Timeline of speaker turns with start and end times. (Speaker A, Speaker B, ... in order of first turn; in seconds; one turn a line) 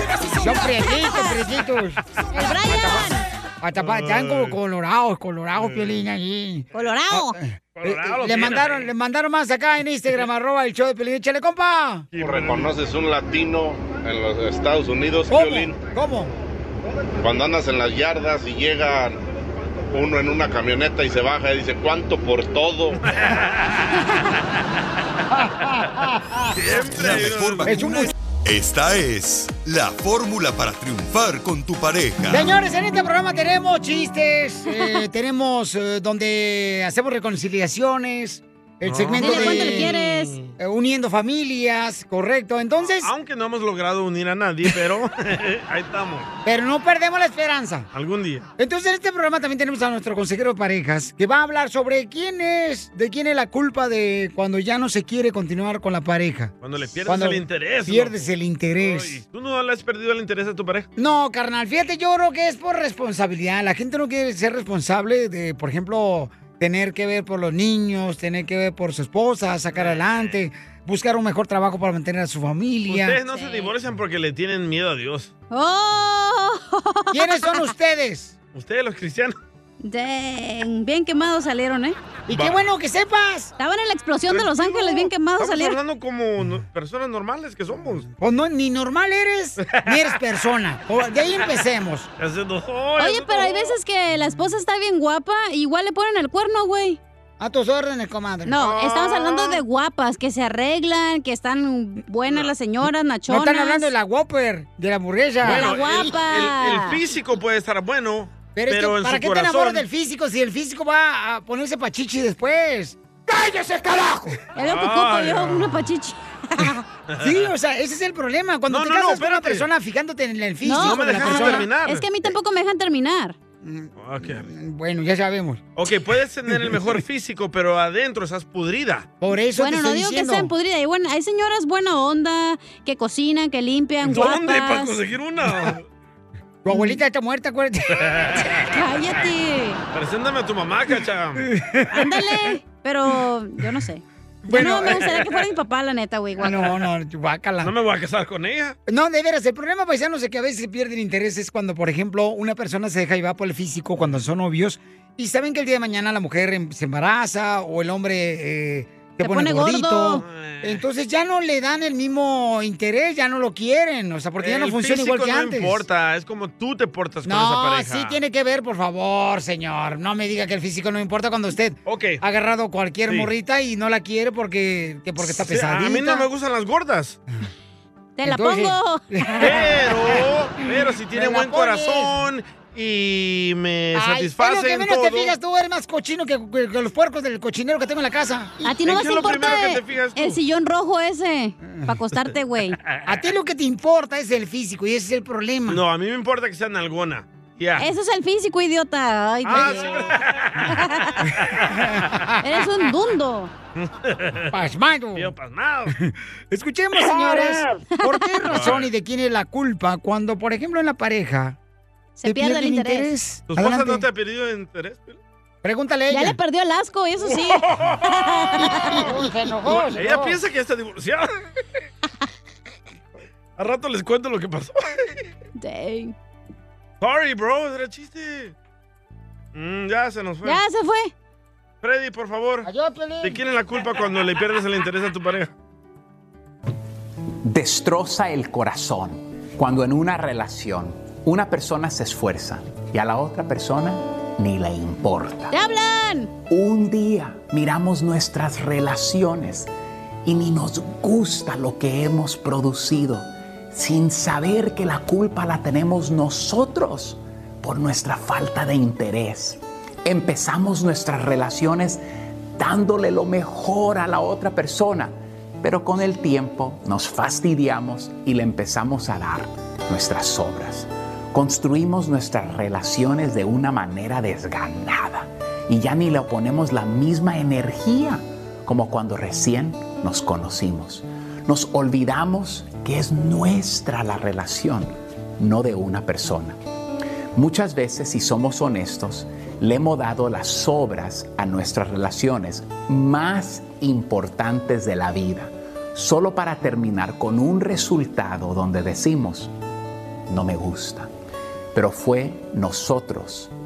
Speaker A: 0.4-2.0
Speaker B: 0.9-1.4
Speaker B: 2.3-3.3
Speaker A: 2.6-12.1
Speaker C: 3.8-4.5
Speaker C: 5.6-5.9
Speaker B: 6.7-7.4
Speaker C: 7.8-8.9
Speaker C: 12.1-12.7
Speaker D: 12.2-15.8
Speaker A: 15.3-16.3
Speaker D: 17.2-19.2
Speaker D: 19.9-23.0
Speaker C: 23.0-23.8
Speaker A: 25.3-26.5
Speaker C: 26.5-27.8
Speaker E: 26.7-32.5
Speaker A: 27.6-28.1
Speaker A: 32.3-39.9
Speaker C: 38.8-40.5
Speaker B: 39.2-40.4
Speaker A: 40.6-43.1
Speaker C: 43.0-46.3
Speaker A: 46.4-47.9
Speaker C: 47.9-48.4
Speaker A: 48.6-56.5
Speaker C: 56.6-58.2
Speaker A: 57.0-59.2
Speaker C: 58.8-60.9
Speaker A: 61.0-73.2
Speaker C: 69.7-70.3
Speaker C: 72.9-75.3
Speaker B: 73.3-73.7
Speaker B: 75.5-77.7
Speaker A: 77.1-78.3
Speaker C: 78.5-79.3
Speaker B: 79.8-82.0
Speaker A: 82.3-83.5
Speaker C: 82.3-82.6
Speaker B: 83.6-85.8
Speaker C: 84.3-88.1
Speaker A: 88.2-92.1
Speaker C: 89.6-90.2
Speaker C: 92.2-93.8
Speaker B: 93.0-97.0
Speaker A: 97.4-98.5
Speaker B: 98.5-103.9
Speaker C: 98.5-99.6
Speaker C: 102.2-102.5
Speaker A: 103.3-105.7
Speaker C: 105.4-109.8
Speaker B: 105.5-107.0
Speaker A: 108.5-114.3
Speaker B: 114.5-116.8
Speaker C: 114.5-115.9
Speaker C: 117.1-117.5
Speaker A: 117.2-121.7
Speaker C: 118.7-119.7
Speaker B: 120.6-123.3
Speaker C: 120.7-122.1
Speaker A: 123.6-125.6
Speaker C: 124.0-124.5
Speaker C: 125.8-129.1
Speaker A: 129.2-130.5
Speaker B: 129.6-135.0
Speaker C: 134.0-135.8
Speaker A: 136.6-138.4
Speaker B: 136.7-137.0
Speaker C: 138.0-138.5
Speaker B: 138.6-139.8
Speaker C: 139.9-141.5
Speaker A: 141.4-142.3
Speaker B: 141.9-146.6
Speaker A: 144.5-145.0
Speaker C: 144.7-145.4
Speaker A: 146.4-147.7
Speaker C: 146.5-146.7
Speaker C: 147.6-148.8
Speaker A: 148.9-165.8
Speaker B: 159.2-160.2
Speaker C: 160.1-160.8
Speaker C: 164.4-168.2
Speaker A: 167.2-176.2
Speaker C: 171.8-172.2
Speaker C: 175.2-177.2
Speaker B: 178.2-179.6
Speaker A: 178.2-180.2
Speaker C: 179.4-185.3
Speaker A: 181.1-182.1
Speaker A: 183.9-188.7
Speaker B: 188.6-192.8
Speaker C: 188.8-190.4
Speaker A: 191.6-191.9
Speaker A: 193.0-195.8
Speaker C: 195.7-197.9
Speaker B: 197.8-200.0
Speaker C: 199.4-200.8
Speaker A: 199.5-200.0
Speaker B: 200.7-201.2
Speaker A: 201.2-202.4
Speaker C: 201.4-201.7
Speaker B: 202.4-203.5
Speaker C: 203.8-204.5
Speaker A: 204.5-205.3
Speaker C: 205.1-205.9
Speaker A: 205.9-211.6
Speaker B: 208.1-208.4
Speaker C: 208.5-208.9
Speaker B: 212.2-213.1
Speaker A: 212.2-214.0
Speaker C: 213.5-215.2
Speaker A: 215.6-216.4
Speaker B: 216.1-219.1
Speaker C: 217.2-218.1
Speaker A: 218.6-220.4
Speaker C: 219.7-221.3
Speaker C: 223.6-225.1
Speaker B: 225.6-226.1
Speaker C: 227.0-228.5
Speaker C: 229.5-230.6
Speaker B: 230.4-231.1
Speaker C: 231.8-232.7
Speaker A: 232.6-233.4
Speaker C: 233.2-235.5
Speaker F: 237.4-245.5
Speaker B: 245.5-246.3
Speaker F: 246.5-249.7
Speaker F: 250.2-262.0
Speaker F: 262.6-286.6
Speaker F: 287.4-299.5
Speaker F: 300.3-301.1
Speaker F: 301.7-303.5